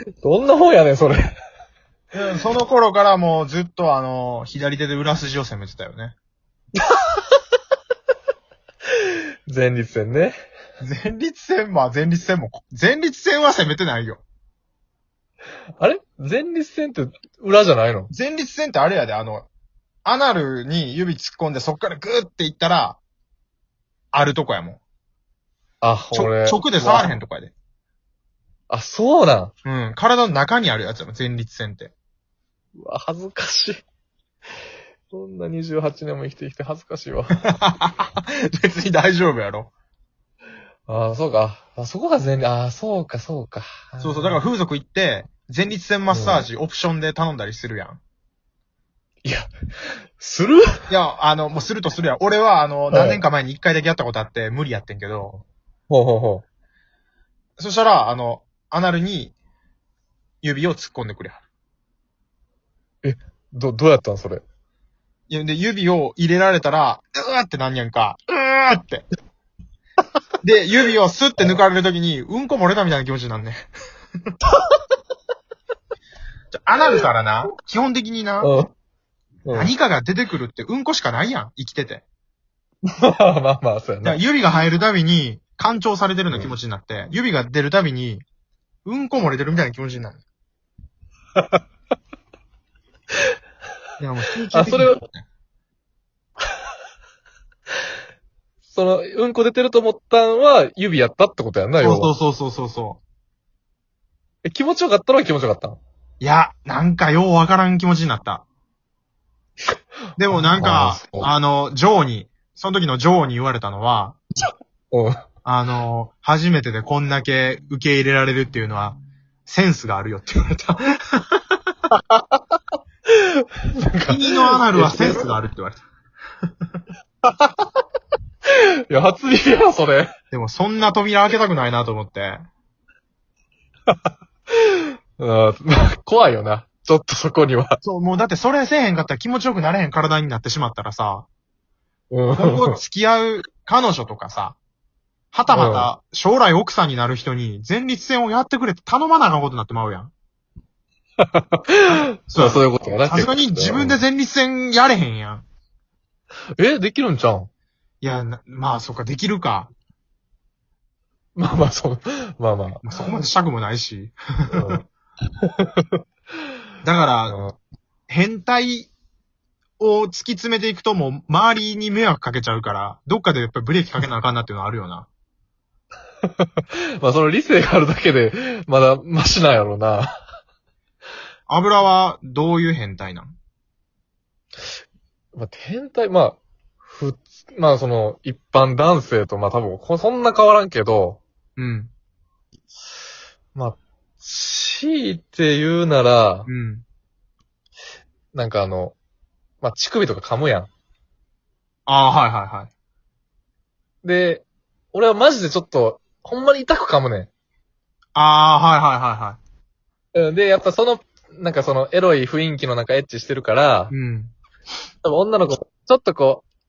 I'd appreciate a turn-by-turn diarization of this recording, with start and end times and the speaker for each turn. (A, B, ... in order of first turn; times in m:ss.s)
0:00.2-0:01.3 A
0:02.1-0:06.2 B
0:06.8-0:07.2 A
0:09.4-0:10.4 A
0:10.8-0:14.2 B
0:15.8-0:18.1 A
0:18.1-0:19.5 B
0:20.0-0:23.0 B
0:24.1-0:24.8 B
0:25.8-0:27.1 A
0:26.1-0:27.5 B
0:28.7-0:29.5 A
0:29.6-0:31.9 B
0:32.8-0:33.8 A
0:35.1-0:37.4 A
0:37.5-0:39.7 B
0:40.9-0:44.4 A
0:44.0-0:48.0 B
0:46.1-0:46.4 A
0:49.2-0:49.5 A
0:50.2-0:50.7 A
0:50.9-0:55.4 B
0:52.9-0:53.2 A
0:55.9-0:56.4 A
0:57.6-0:59.3 B
1:00.4-1:01.4 B
1:03.0-1:04.4 A
1:05.3-1:09.0 B
1:10.4-1:13.6 B
1:16.5-1:18.5 B
1:18.4-1:18.7 A
1:19.4-1:19.7 A
1:19.5-1:22.0 B
1:23.0-1:24.2 A
1:24.0-1:28.2 B
1:28.8-1:30.2 B
1:34.0-1:35.2 B
1:34.5-1:35.0 A
1:38.7-1:42.1 A
1:41.8-1:43.0 B
1:44.4-1:45.8 A
1:46.2-1:48.4 B
1:50.2-1:54.2 B
1:50.3-1:51.3 A
1:54.9-1:55.2 A
1:55.4-2:01.3 B
2:01.9-2:02.4 A
2:03.1-2:05.3 A
2:04.1-2:05.8 B
2:08.9-2:10.1 A
2:10.3-2:12.4 B
2:14.6-2:17.8 A
2:17.8-2:21.3 B
2:22.1-2:22.8 A
2:22.3-2:24.6 B
2:25.3-2:30.1 B
2:25.5-2:25.9 A
2:31.3-2:34.0 A
2:32.0-2:35.4 B
2:36.6-2:37.5 A
2:38.0-2:39.7 B
2:41.4-2:43.2 A
2:42.8-2:44.8 B
2:44.5-2:44.8 A
2:45.4-2:46.0 A
2:46.8-2:47.4 B
2:47.3-2:47.5 A
2:48.1-2:48.9 B
2:49.8-2:55.1 B
2:57.0-3:00.1 A
3:01.5-3:03.3 B
3:05.3-3:11.2 A
3:11.6-3:11.9 B
3:13.5-3:16.5 A
3:16.5-3:16.8 B
3:18.3-3:19.0 A
3:19.6-3:20.7 A
3:21.9-3:22.7 B
3:24.0-3:27.3 A
3:28.1-3:29.4 B
3:30.1-3:33.9 A
3:33.9-3:34.3 B
3:35.0-3:36.4 A